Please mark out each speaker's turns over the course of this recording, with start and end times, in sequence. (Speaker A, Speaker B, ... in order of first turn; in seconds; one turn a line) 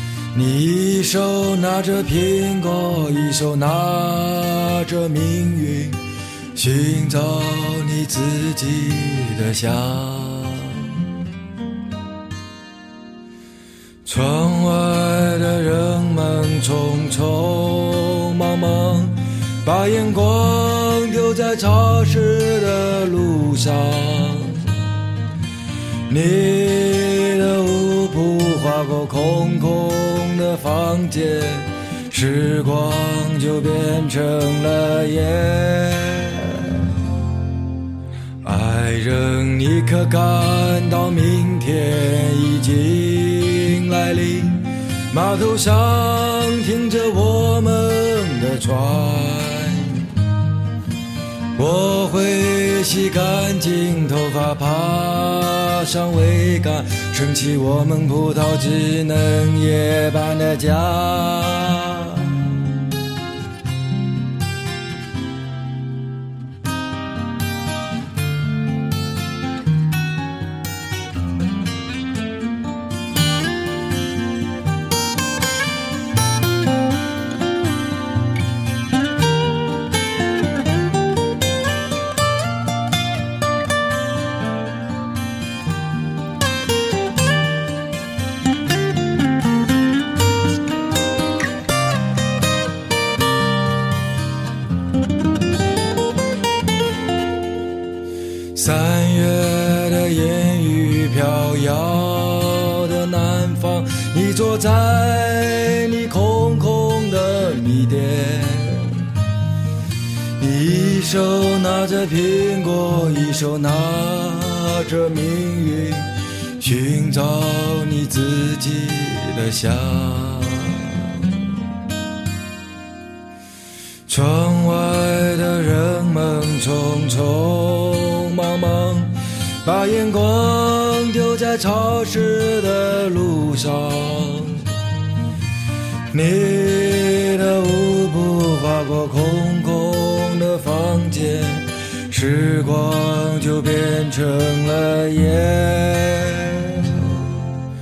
Speaker A: 0.3-6.0
Speaker A: 6.5-11.0
Speaker A: 14.1-24.9
Speaker A: 26.1-36.9
Speaker A: 38.4-50.2
Speaker A: 51.6-62.6
Speaker A: 98.5-109.1
Speaker A: 110.4-121.4
Speaker A: 124.1-134.8
Speaker A: 136.1-147.5